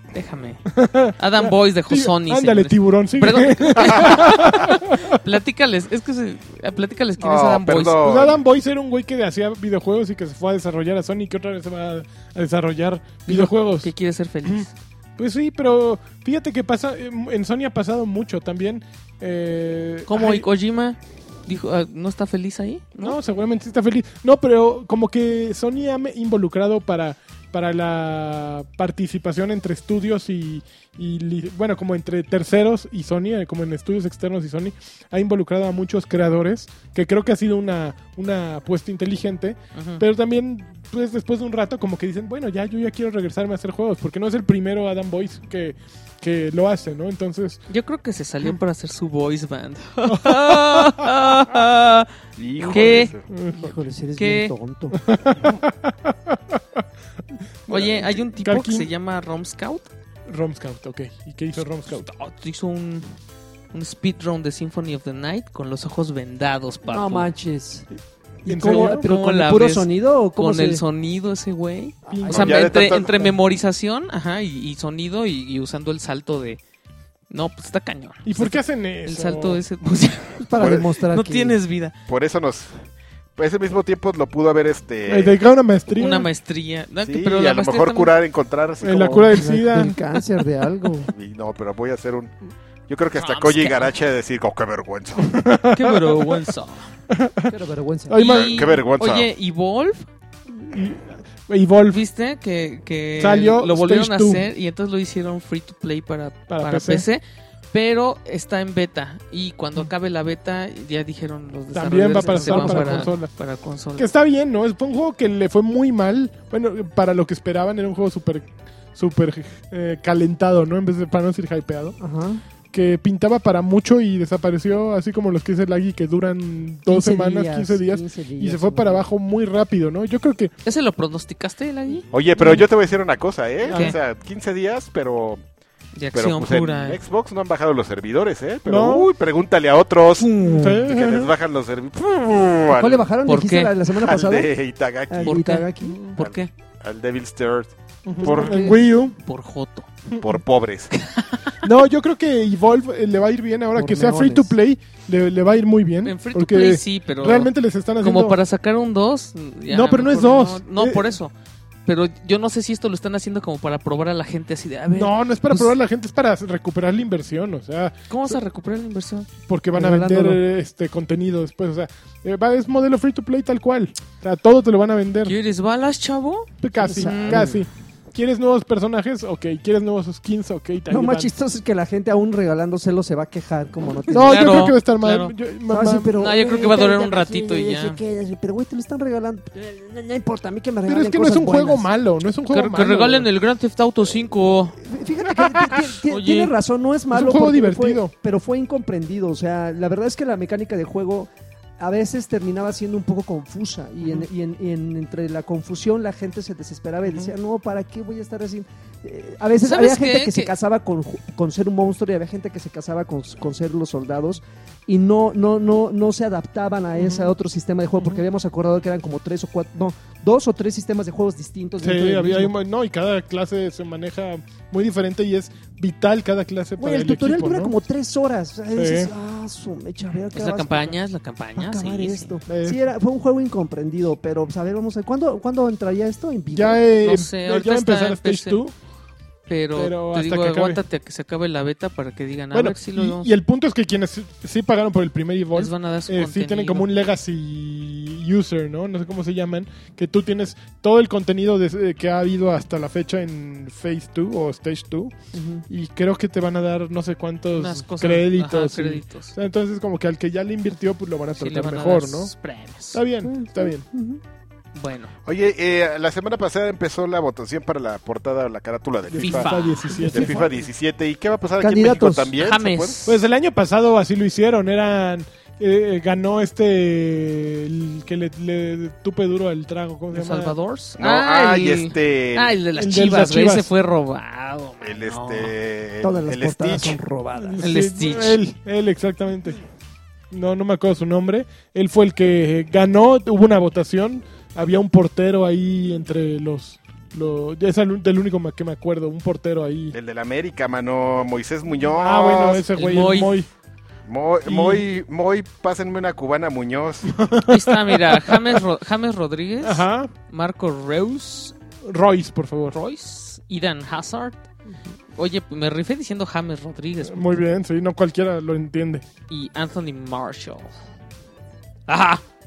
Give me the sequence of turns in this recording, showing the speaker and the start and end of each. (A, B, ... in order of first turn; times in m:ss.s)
0:00.1-0:00.6 A
0:00.7-0:05.2 B
0:01.2-0:08.0 A
0:07.2-0:08.4 C
0:08.0-0:13.9 B
0:13.3-0:14.7 A
0:15.2-0:20.4 B
0:20.1-0:23.2 A
0:23.0-0:47.6 B
0:39.7-0:40.0 A
0:47.7-0:52.1 A
0:50.0-0:51.1 B
0:52.4-0:53.2 C
0:52.7-0:53.1 A
0:53.3-0:53.7 B
0:53.5-0:55.0 D
0:54.2-0:54.5 A
0:54.9-0:56.6 B
0:57.6-0:58.9 B
0:57.7-0:59.9 A
1:00.3-1:02.1 B
1:01.9-1:03.2 A
1:03.7-1:07.3 A
1:06.8-1:07.9 D
1:08.4-1:10.8 D
1:08.4-1:09.0 B
1:08.6-1:16.6 A
1:12.0-1:13.4 D
1:12.1-1:12.4 B
1:12.3-1:13.1 C
1:17.3-1:21.9 A
1:18.2-1:19.6 B
1:20.5-1:21.6 D
1:20.6-1:20.9 C
1:22.1-1:22.8 C
1:23.4-1:25.4 C
1:25.1-1:26.3 B
1:25.9-1:28.1 A
1:27.0-1:29.4 C
1:28.8-1:30.0 B
1:29.1-1:31.1 D
1:31.1-1:32.3 C
1:32.9-1:35.3 C
1:33.1-1:33.9 A
1:35.2-1:36.5 B
1:35.7-1:36.9 A
1:37.1-1:37.5 B
1:37.5-1:38.2 D
1:38.1-1:38.7 B
1:38.2-1:40.1 A
1:38.2-1:39.3 C
1:40.5-1:42.0 B
1:41.9-1:54.1 A
1:43.2-1:44.4 B
1:46.5-1:47.0 B
1:51.7-1:53.3 B
1:52.1-1:53.1 D
1:54.0-2:02.0 B
2:02.0-2:02.4 D
2:02.7-2:10.5 B
2:06.9-2:09.0 D
2:10.6-2:12.1 A
2:12.1-2:15.4 C
2:13.7-2:14.0 A
2:13.7-2:13.9 B
2:15.9-2:17.0 A
2:16.1-2:23.1 C
2:18.6-2:19.1 B
2:20.2-2:20.8 A
2:20.4-2:21.3 B
2:22.7-2:24.5 D
2:23.2-2:23.7 A
2:24.0-2:25.4 C
2:25.1-2:26.0 D
2:25.2-2:26.5 A
2:25.8-2:26.1 B
2:26.2-2:28.7 C
2:28.0-2:29.2 B
2:28.2-2:28.8 D
2:29.2-2:29.9 A
2:30.2-2:30.9 C
2:30.9-2:31.6 A
2:31.6-2:38.4 B
2:33.7-2:34.5 D
2:36.0-2:41.3 A
2:39.7-2:41.1 B
2:41.8-2:45.8 A
2:44.9-2:48.4 B
2:48.1-2:49.3 A
2:49.5-2:55.3 B
2:49.7-2:50.4 D
2:55.2-2:57.4 A
2:56.6-3:01.3 B
2:56.8-2:57.6 D
3:00.9-3:04.6 D
3:04.1-3:06.2 B
3:04.2-3:05.3 A
3:05.7-3:11.8 D
3:06.1-3:08.0 A
3:10.8-3:13.3 B
3:12.5-3:14.8 A
3:14.8-3:42.5 D
3:15.4-3:15.8 B
3:16.0-3:16.5 A
3:17.1-3:18.1 B
3:27.1-3:27.3 B
3:29.6-3:30.5 A
3:37.0-3:37.3 B
3:38.0-3:38.2 B
3:41.8-3:47.7 B
3:46.8-3:51.0 D
3:48.7-3:49.1 B
3:50.3-3:52.4 A
3:51.6-3:56.8 D
3:52.5-3:52.8 B
3:56.5-3:58.7 B
3:57.0-3:58.6 A
3:59.5-4:03.3 A
3:59.7-4:00.8 B
4:02.5-4:15.1 B
4:05.5-4:06.9 A
4:15.3-4:15.6 D
4:15.7-4:22.3 B
4:17.5-4:19.3 A
4:21.4-4:23.0 A
4:22.9-4:23.8 B
4:23.2-4:24.2 D
4:24.7-4:25.1 A
4:25.2-4:29.5 C
4:29.1-4:30.5 B
4:29.2-4:30.4 A
4:30.1-4:33.0 C
4:31.6-4:32.3 D
4:32.4-4:33.1 A
4:33.0-4:40.6 B
4:40.1-4:45.5 A
4:41.0-4:42.6 C
4:42.7-4:43.7 B
4:44.8-4:47.0 C
4:46.0-4:47.7 D
4:47.4-4:49.6 B
4:47.6-4:48.4 A
4:50.3-4:59.9 B
4:59.9-5:02.6 C
5:01.9-5:03.5 B
5:02.7-5:03.3 A
5:04.0-5:07.1 C
5:04.4-5:04.8 B
5:07.1-5:08.6 B
5:07.5-5:11.5 A
5:09.6-5:10.1 B
5:11.8-5:12.8 B
5:12.7-5:14.4 A
5:15.1-5:17.4 A
5:17.0-5:19.0 B
5:19.3-5:20.7 A
5:21.9-5:22.2 A